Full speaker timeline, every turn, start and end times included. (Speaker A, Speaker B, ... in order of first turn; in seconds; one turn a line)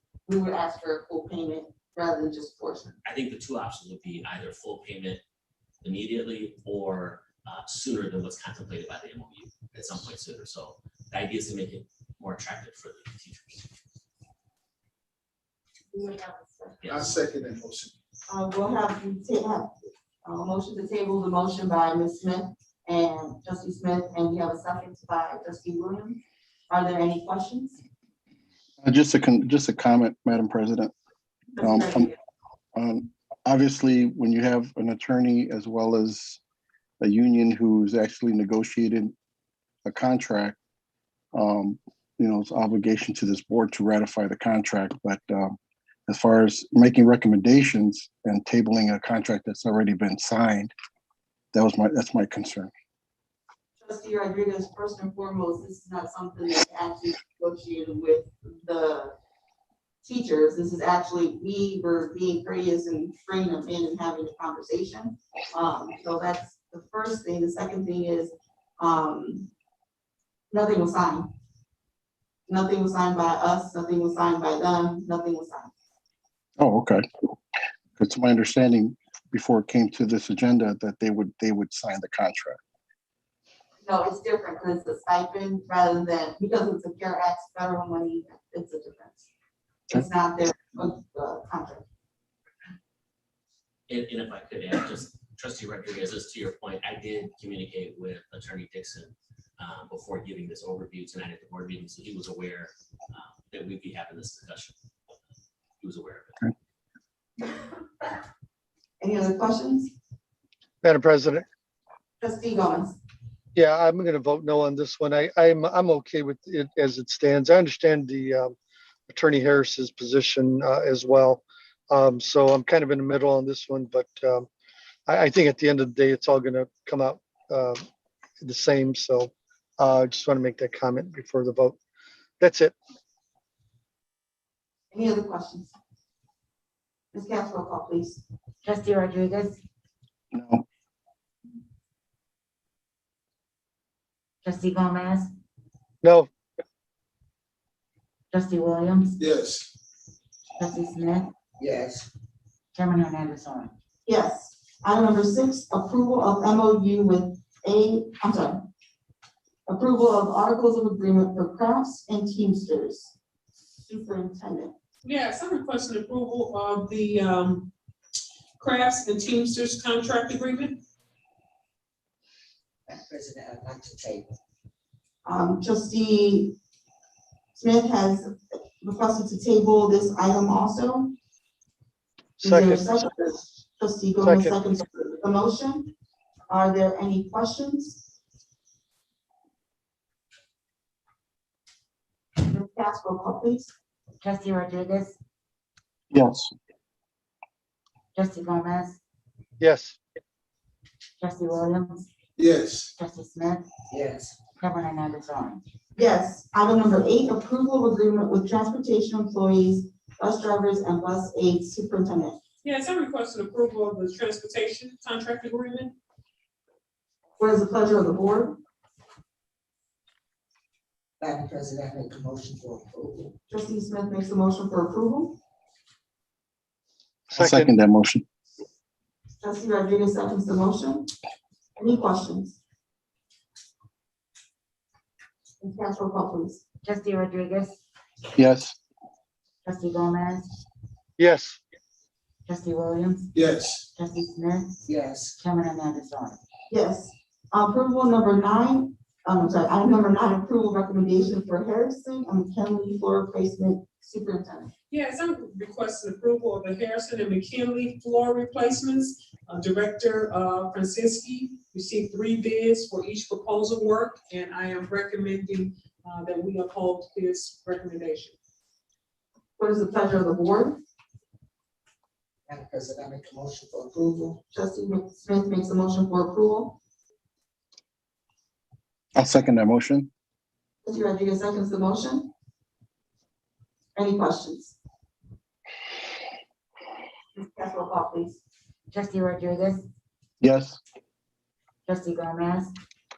Speaker A: 0.3-3.0
Speaker B: 3.0-5.2
Speaker B: 5.8-13.7
Speaker A: 15.9-17.1
Speaker B: 16.8-17.1
Speaker C: 16.9-17.9
Speaker A: 18.3-27.8
Speaker D: 28.8-30.9
Speaker D: 31.6-32.1
Speaker A: 31.6-32.1
Speaker D: 32.7-36.4
Speaker D: 37.0-39.1
Speaker D: 39.8-40.6
Speaker D: 41.3-45.5
Speaker D: 46.1-50.7
Speaker D: 51.5-52.7
Speaker A: 53.8-59.1
Speaker A: 60.0-69.5
Speaker A: 70.5-71.3
Speaker A: 72.5-75.7
Speaker D: 76.6-77.0
Speaker D: 78.0-82.6
Speaker A: 83.8-89.3
Speaker A: 89.9-91.8
Speaker B: 93.9-104.7
Speaker B: 105.8-106.5
Speaker A: 109.0-109.9
Speaker E: 110.8-111.5
Speaker A: 112.2-113.0
Speaker E: 113.5-118.6
Speaker E: 119.1-124.5
Speaker E: 125.1-127.8
Speaker E: 128.4-131.8
Speaker E: 132.4-132.7
Speaker A: 134.9-135.7
Speaker A: 137.1-138.2
Speaker F: 138.6-139.6
Speaker D: 140.3-140.6
Speaker F: 144.4-145.3
Speaker E: 146.0-146.3
Speaker F: 148.3-149.2
Speaker C: 149.2-149.7
Speaker F: 150.6-151.3
Speaker G: 151.6-152.1
Speaker F: 152.7-153.7
Speaker A: 154.1-158.6
Speaker A: 159.7-163.1
Speaker A: 163.8-164.7
Speaker H: 165.0-167.7
Speaker H: 168.6-170.8
Speaker G: 172.9-174.3
Speaker A: 175.2-176.6
Speaker A: 177.5-181.1
Speaker E: 182.4-183.4
Speaker A: 182.4-185.9
Speaker E: 184.2-184.6
Speaker A: 186.5-188.0
Speaker A: 192.4-193.7
Speaker F: 194.2-195.2
Speaker D: 196.1-196.5
Speaker F: 198.1-199.0
Speaker E: 199.6-200.0
Speaker F: 201.2-202.1
Speaker C: 202.4-202.9
Speaker F: 203.0-203.7
Speaker G: 203.9-204.4
Speaker F: 204.5-205.6
Speaker A: 206.0-212.4
Speaker H: 212.6-215.9
Speaker A: 217.4-218.6
Speaker G: 221.2-223.3
Speaker A: 223.5-225.4
Speaker D: 227.3-228.2
Speaker E: 227.3-227.7
Speaker A: 229.4-231.1
Speaker A: 231.8-232.6
Speaker A: 235.6-236.6
Speaker F: 236.8-237.8
Speaker D: 238.3-238.8
Speaker F: 239.6-240.5
Speaker E: 241.2-241.6
Speaker F: 242.4-244.7
Speaker C: 243.3-243.8
Speaker G: 244.8-245.4
Speaker F: 245.4-246.4
Speaker A: 246.7-254.7
Speaker H: 254.9-268.3
Speaker A: 269.6-270.8
Speaker G: 272.5-274.4
Speaker A: 274.5-276.8
Speaker D: 279.1-280.1
Speaker A: 280.8-282.3
Speaker A: 283.9-284.8
Speaker A: 287.3-288.4
Speaker F: 288.9-289.9
Speaker D: 290.4-290.8
Speaker F: 291.9-292.7